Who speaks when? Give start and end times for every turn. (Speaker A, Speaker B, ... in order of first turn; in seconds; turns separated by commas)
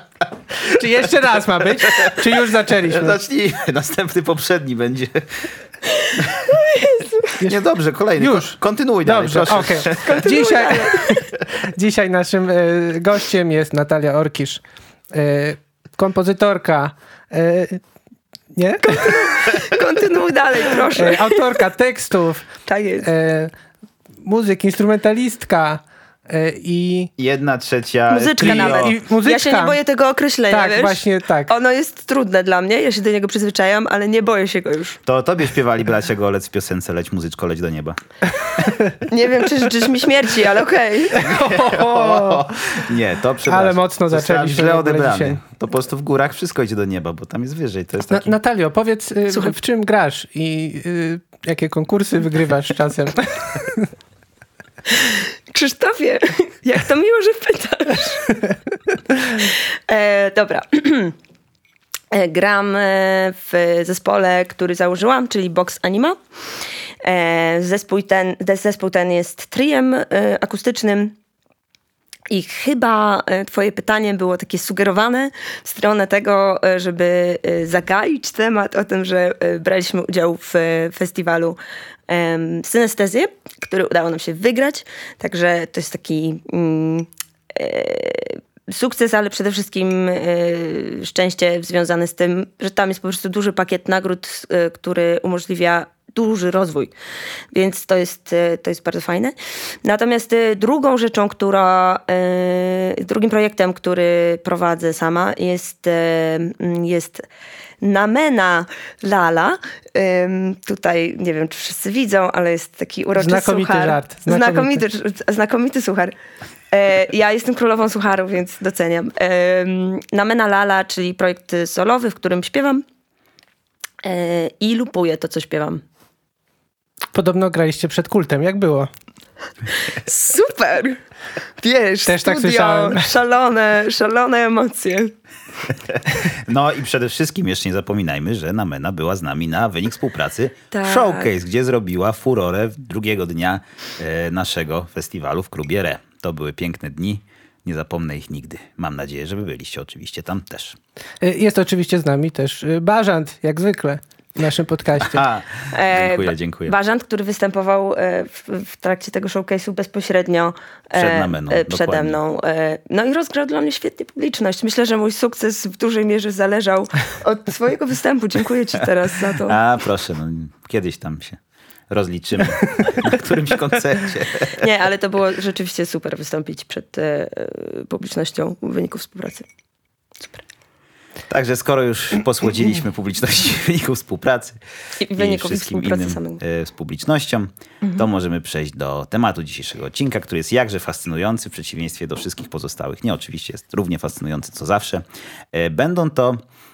Speaker A: 0.7-3.2, Speaker B: 0.7-5.5, Speaker C: 6.7-7.3, Speaker B: 7.4-10.4, Speaker A: 8.2-14.6, Speaker C: 10.0-11.1, Speaker A: 15.1-17.8, Speaker A: 18.6-19.2, Speaker C: 18.9-21.4, Speaker A: 21.0-22.5, Speaker C: 22.7-23.1, Speaker A: 23.0-23.5, Speaker A: 24.2-27.1, Speaker B: 27.2-29.0, Speaker C: 28.1-35.0, Speaker A: 28.4-29.8, Speaker A: 30.5-31.5, Speaker B: 35.1-38.0, Speaker C: 39.1-41.3, Speaker B: 41.1-48.4, Speaker A: 41.2-42.5, Speaker A: 43.5-45.4, Speaker A: 48.1-53.9, Speaker C: 55.5-58.3, Speaker C: 59.5-61.1, Speaker C: 62.1-66.2, Speaker C: 67.0-71.2, Speaker C: 72.3-81.6, Speaker C: 82.1-96.9, Speaker C: 97.5-107.3, Speaker C: 107.8-116.2, Speaker A: 113.2-114.8, Speaker C: 116.7-122.8, Speaker C: 124.0-125.8, Speaker A: 127.1-128.9, Speaker C: 129.9-131.0, Speaker C: 131.6-135.1, Speaker A: 132.1-133.1, Speaker B: 135.7-150.8, Speaker C: 140.7-141.3, Speaker A: 151.2-155.2, Speaker B: 155.0-156.7, Speaker C: 155.7-169.6, Speaker B: 160.9-162.2, Speaker B: 169.4-174.7, Speaker C: 174.6-179.5, Speaker B: 181.3-184.6, Speaker C: 185.0-186.4, Speaker B: 185.1-196.4